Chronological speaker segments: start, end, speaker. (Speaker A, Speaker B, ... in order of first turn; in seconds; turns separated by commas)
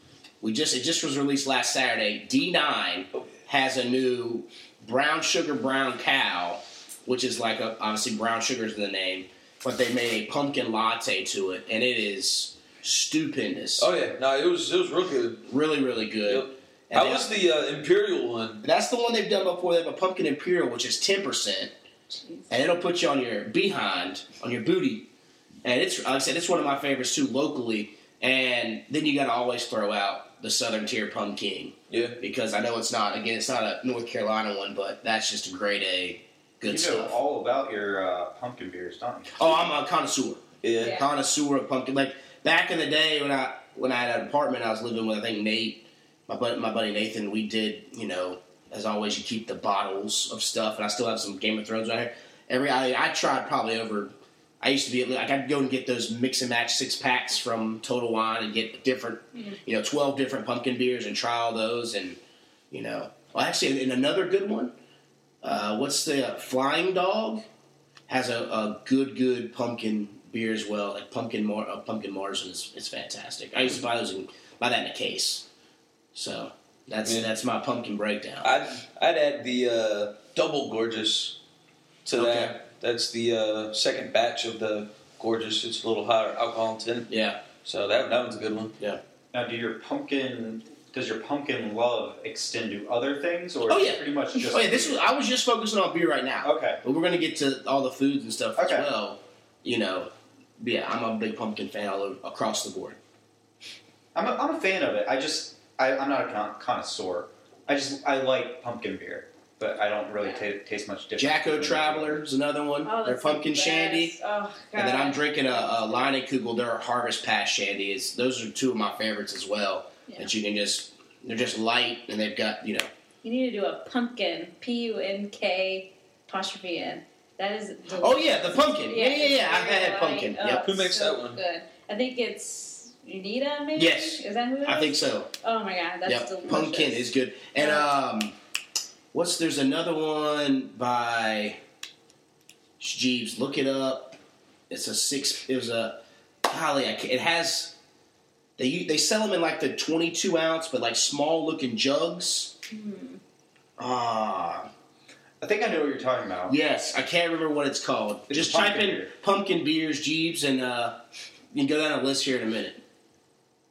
Speaker A: 0.4-13.9, Speaker B: 13.8-15.5, Speaker A: 15.5-17.3, Speaker B: 16.2-18.6, Speaker A: 18.6-21.7, Speaker A: 22.5-25.1, Speaker A: 25.6-37.2, Speaker B: 31.9-32.2, Speaker C: 36.7-39.4, Speaker A: 39.3-62.2, Speaker B: 40.6-41.0, Speaker D: 40.8-41.1, Speaker A: 62.7-64.7, Speaker A: 65.4-67.5, Speaker A: 68.1-75.5, Speaker A: 76.2-78.5, Speaker B: 77.0-77.3, Speaker B: 78.4-81.4, Speaker B: 82.0-87.1, Speaker A: 82.1-82.5, Speaker A: 87.1-87.4, Speaker B: 87.6-88.8, Speaker C: 89.3-95.1, Speaker A: 93.7-103.0, Speaker C: 96.4-96.8, Speaker C: 98.6-98.9, Speaker C: 104.2-112.2, Speaker A: 111.2-114.2, Speaker D: 112.8-116.1, Speaker A: 114.8-122.9, Speaker D: 123.2-137.9, Speaker A: 128.0-130.7, Speaker B: 130.6-131.4, Speaker A: 133.8-135.3, Speaker A: 136.1-138.3, Speaker A: 139.1-141.6, Speaker A: 142.8-144.2, Speaker A: 144.7-147.8, Speaker A: 148.6-152.5, Speaker D: 152.7-153.2, Speaker C: 153.8-154.7, Speaker C: 155.4-156.6, Speaker A: 156.5-161.0, Speaker C: 158.3-159.1, Speaker A: 161.5-162.8